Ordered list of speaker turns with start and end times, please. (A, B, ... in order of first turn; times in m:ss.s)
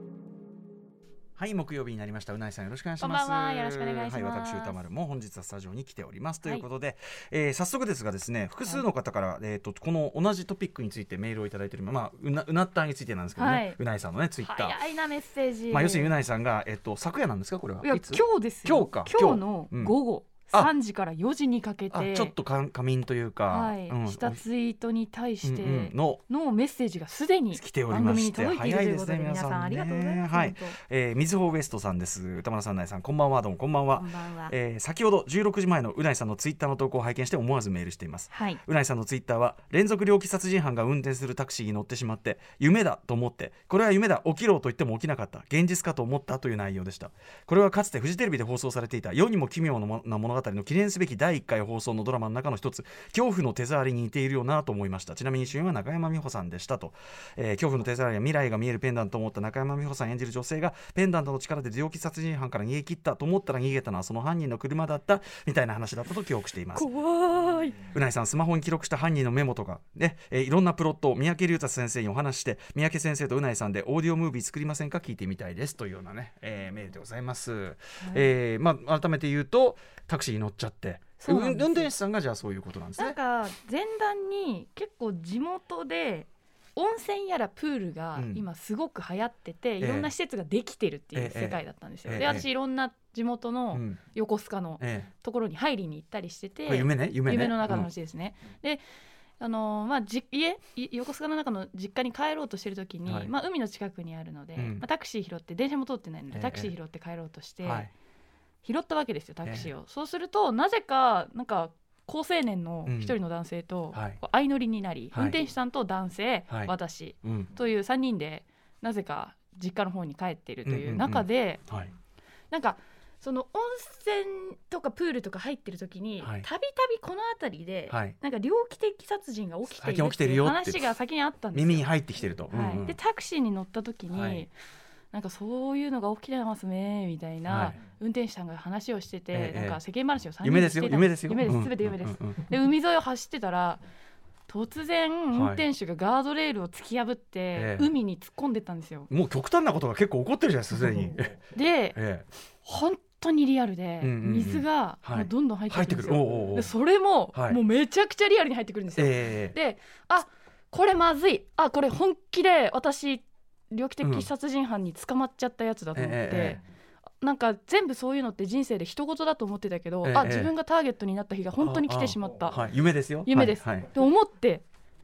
0:01.4-0:14.8 A
0:03.0-0:04.8 B
0:13.4-0:13.8 B
0:14.4-0:16.1 B
0:15.7-0:20.0 A
0:17.8-0:22.3 B
0:21.9-0:24.4 A
0:23.5-0:30.8 B
0:25.4-0:26.2 A
0:27.5-1:06.9 A
0:34.0-0:34.5 B
0:38.3-0:38.6 B
1:06.7-1:07.9 B
1:07.9-1:23.2 A
1:18.0-1:18.3 B
1:21.2-1:21.9 B
1:23.0-1:38.8 B
1:28.2-1:28.4 A
1:29.8-1:30.1 A
1:31.1-1:32.4 A
1:33.7-1:34.0 A
1:34.8-1:35.1 A
1:36.7-1:37.9 A
1:39.4-1:47.9 B
1:44.6-1:44.8 A
1:46.3-1:46.7 A
1:47.6-1:47.9 A
1:48.6-2:01.6 B
1:52.9-1:53.1 A
1:53.9-1:54.2 A
1:55.1-1:55.4 A
1:57.2-1:57.5 A
2:00.6-2:01.9 A
2:02.5-2:11.9 B
2:06.2-2:06.5 A
2:07.9-2:08.1 A
2:09.8-2:10.9 A
2:11.5-2:13.0 A
2:12.5-2:14.5 B
2:14.1-2:14.4 A
2:15.1-2:23.8 B
2:17.5-2:17.8 A
2:19.3-2:19.8 A
2:20.4-2:22.4 A
2:24.5-2:29.1 B
2:25.3-2:25.6 A
2:27.5-2:27.9 A
2:29.1-2:31.4 A
2:31.5-2:32.0 B
2:31.9-2:32.2 A
2:32.6-2:46.6 B
2:34.0-2:36.7 A
2:37.3-2:37.6 A
2:39.0-2:39.5 A
2:44.0-2:44.3 A
2:45.9-2:46.6 A
2:47.2-2:52.7 B
2:50.0-2:50.5 A
2:51.6-2:53.9 A
2:53.2-2:54.6 B